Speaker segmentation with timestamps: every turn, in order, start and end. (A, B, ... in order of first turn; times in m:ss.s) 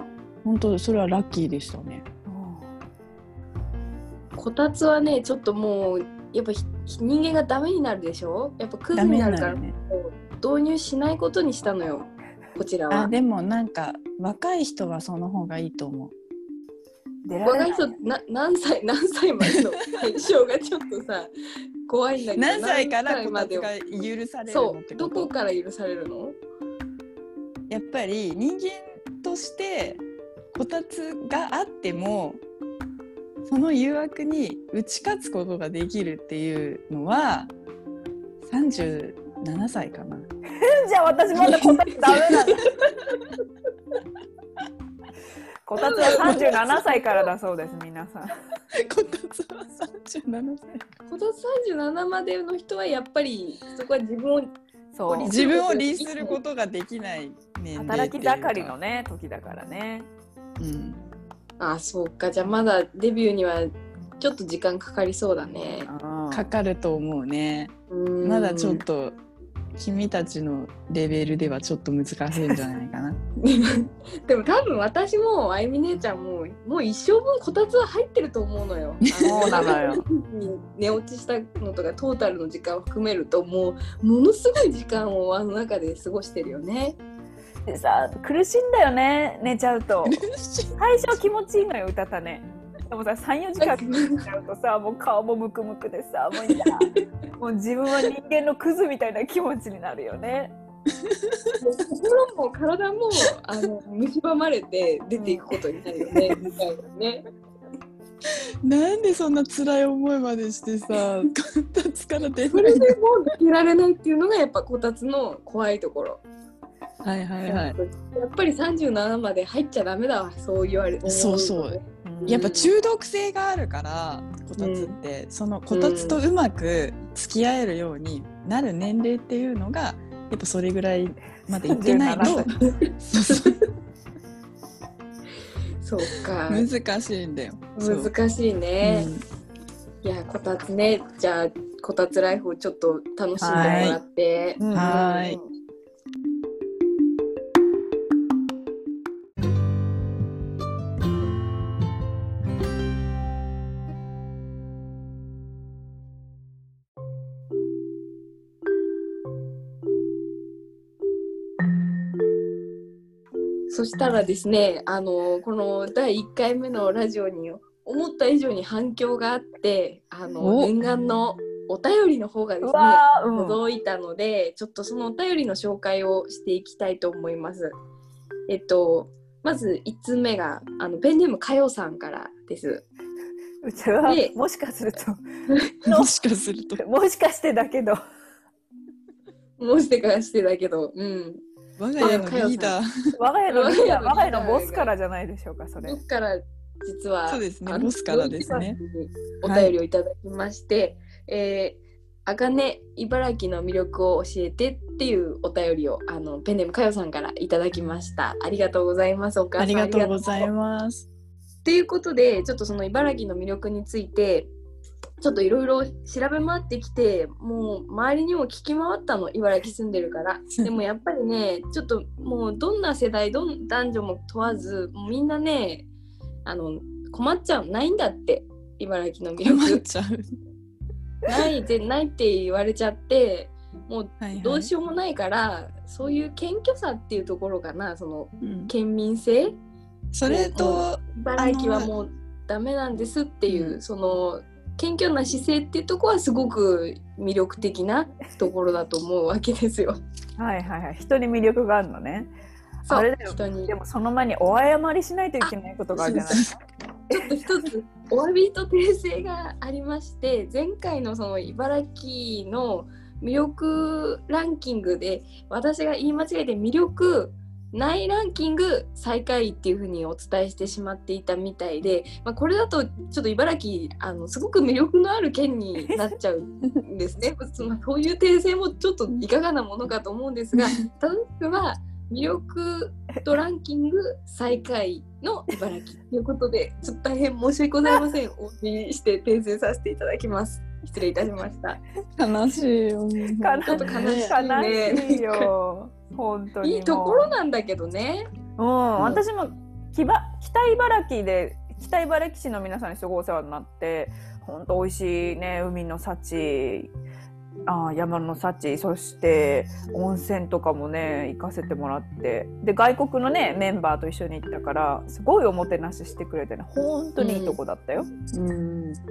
0:00.4-0:02.0 A
0:02.3-0:02.7 B
0:04.4-0:13.1 C
0:08.9-0:09.8 A
0:12.9-0:16.1 A
0:17.2-0:17.9 B
0:17.4-0:21.3 C
0:21.9-0:23.8 C
0:22.3-0:25.3 A
0:24.5-0:26.4 C
0:27.7-0:32.4 A
0:33.4-0:37.5 A
0:38.4-0:40.3 A
0:40.6-0:42.7 B
0:41.4-0:42.5 A
0:45.6-0:48.4 B
0:45.8-0:47.2 C
0:46.0-0:46.7 A
0:48.7-0:50.8 A
0:51.1-0:54.5 C
0:54.9-0:55.3 B
0:55.1-0:56.4 C
0:55.2-0:58.7 A
0:57.7-1:00.1 B
1:00.6-1:01.0 A
1:01.6-1:05.9 C
1:05.8-1:06.5 B
1:06.3-1:09.2 A
1:07.9-1:08.8 C
1:09.8-1:13.2 A
1:13.4-1:27.0 C
1:19.2-1:20.0 A
1:19.3-1:20.0 B
1:27.7-1:30.2 B
1:30.0-1:31.2 A
1:30.8-1:36.9 B
1:33.6-1:34.2 C
1:37.4-1:40.6 B
1:41.0-1:41.4 A
1:41.6-1:47.2 C
1:48.6-1:52.9 A
1:52.5-1:56.2 C
1:57.0-1:57.8 A
1:57.4-2:02.7 C
2:01.0-2:13.5 A
2:02.0-2:02.4 B
2:04.6-2:05.0 C
2:05.7-2:06.2 C
2:11.5-2:12.5 B
2:12.2-2:12.7 C
2:13.3-2:13.6 C
2:15.8-2:16.7 C
2:16.5-2:18.1 A
2:17.8-2:19.1 C
2:18.8-2:19.2 A
2:20.0-2:25.5 C
2:23.4-2:23.8 B
2:23.5-2:24.0 A
2:24.6-2:24.9 B
2:24.7-2:25.4 A
2:43.7-2:57.7 C
2:52.6-2:53.6 B
2:58.5-3:02.8 C
3:03.6-3:05.2 B
3:04.0-3:04.3 C
3:05.8-3:06.1 B
3:05.9-3:06.8 A
3:06.8-3:08.0 B
3:09.6-3:11.4 C
3:11.8-3:12.8 A
3:12.0-3:12.8 C
3:13.1-3:16.0 B
3:13.5-3:14.9 C
3:15.8-3:30.5 C
3:17.3-3:18.8 A
3:19.4-3:19.7 A
3:29.6-3:31.1 A
3:31.6-3:34.5 C
3:35.2-3:45.9 C
3:46.4-3:49.8 C
3:49.4-3:50.3 A
3:51.3-3:59.5 C
3:54.2-3:54.7 A
3:58.4-3:58.7 A
4:00.1-4:01.9 A
4:00.3-4:10.0 C
4:03.5-4:03.8 A
4:10.4-4:12.3 B
4:12.8-4:13.7 C
4:12.9-4:16.5 B
4:15.9-4:16.6 A
4:17.1-4:51.8 C
4:52.2-4:54.3 A
4:53.4-4:57.2 B
4:53.7-4:55.5 C
4:56.6-4:58.2 C
4:58.6-5:06.9 B
4:59.0-4:59.2 A
5:07.7-5:18.1 B
5:17.2-5:17.6 C
5:18.3-5:19.0 A